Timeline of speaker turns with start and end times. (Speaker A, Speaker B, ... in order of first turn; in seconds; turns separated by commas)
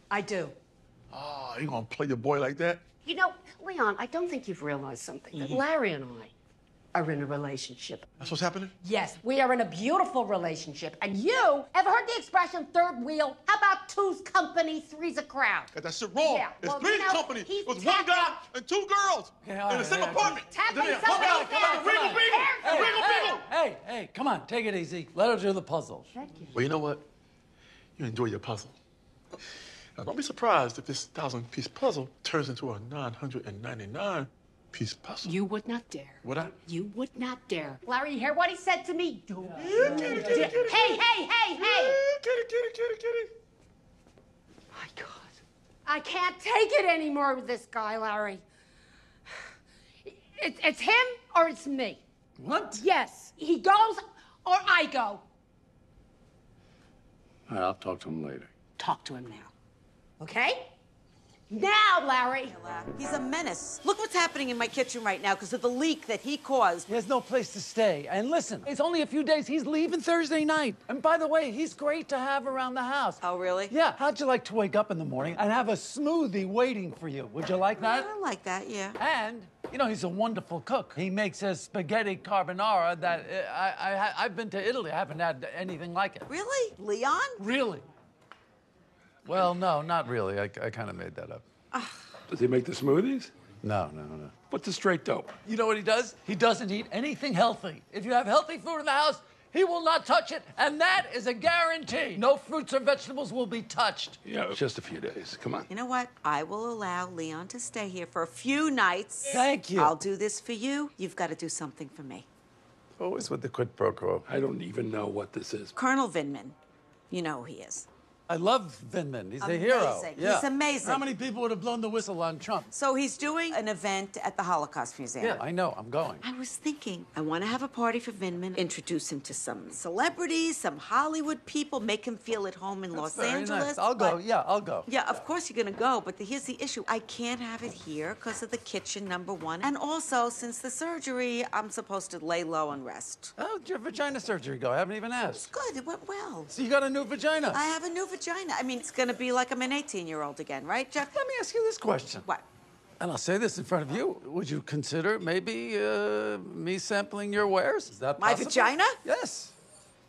Speaker A: 0.1-0.5, Speaker B: 1.1-2.8, Speaker A: 3.0-6.3, Speaker A: 6.9-8.1, Speaker B: 8.2-8.7, Speaker A: 8.8-18.4, Speaker B: 15.7-23.4, Speaker C: 19.4-26.1, Speaker A: 20.4-23.4, Speaker A: 26.1-26.5, Speaker B: 26.5-27.0, Speaker B: 28.0-28.7, Speaker B: 30.0-35.3, Speaker A: 35.2-42.0, Speaker B: 36.2-36.6, Speaker B: 39.6-41.0, Speaker C: 39.6-40.2, Speaker B: 41.5-43.3, Speaker A: 44.7-45.3, Speaker A: 45.9-48.4, Speaker A: 50.0-52.0, Speaker C: 52.4-52.8, Speaker A: 52.8-55.2, Speaker C: 57.5-58.5, Speaker A: 58.8-59.5, Speaker A: 60.2-60.7, Speaker A: 61.5-62.5, Speaker D: 62.4-66.9, Speaker C: 66.9-78.1, Speaker D: 73.2-73.7, Speaker D: 77.8-79.0, Speaker C: 79.0-86.3, Speaker D: 86.3-87.4, Speaker C: 87.4-87.8, Speaker C: 89.2-91.4, Speaker D: 91.7-92.1, Speaker E: 92.3-93.3, Speaker C: 93.6-94.3, Speaker E: 94.5-95.3, Speaker C: 95.4-104.2, Speaker E: 104.2-105.7, Speaker D: 105.7-112.2, Speaker C: 109.3-110.0, Speaker C: 113.0-114.2, Speaker E: 114.3-115.7, Speaker D: 115.7-116.5, Speaker D: 117.1-117.9, Speaker C: 118.3-122.7, Speaker D: 119.4-121.0, Speaker D: 122.7-125.4, Speaker C: 125.2-126.2, Speaker D: 126.2-134.2, Speaker C: 132.9-134.9, Speaker D: 134.9-143.3, Speaker C: 143.4-145.5, Speaker D: 145.3-146.5, Speaker C: 146.5-147.6, Speaker D: 147.5-151.1, Speaker C: 151.0-152.2, Speaker C: 153.0-159.5, Speaker D: 158.2-159.0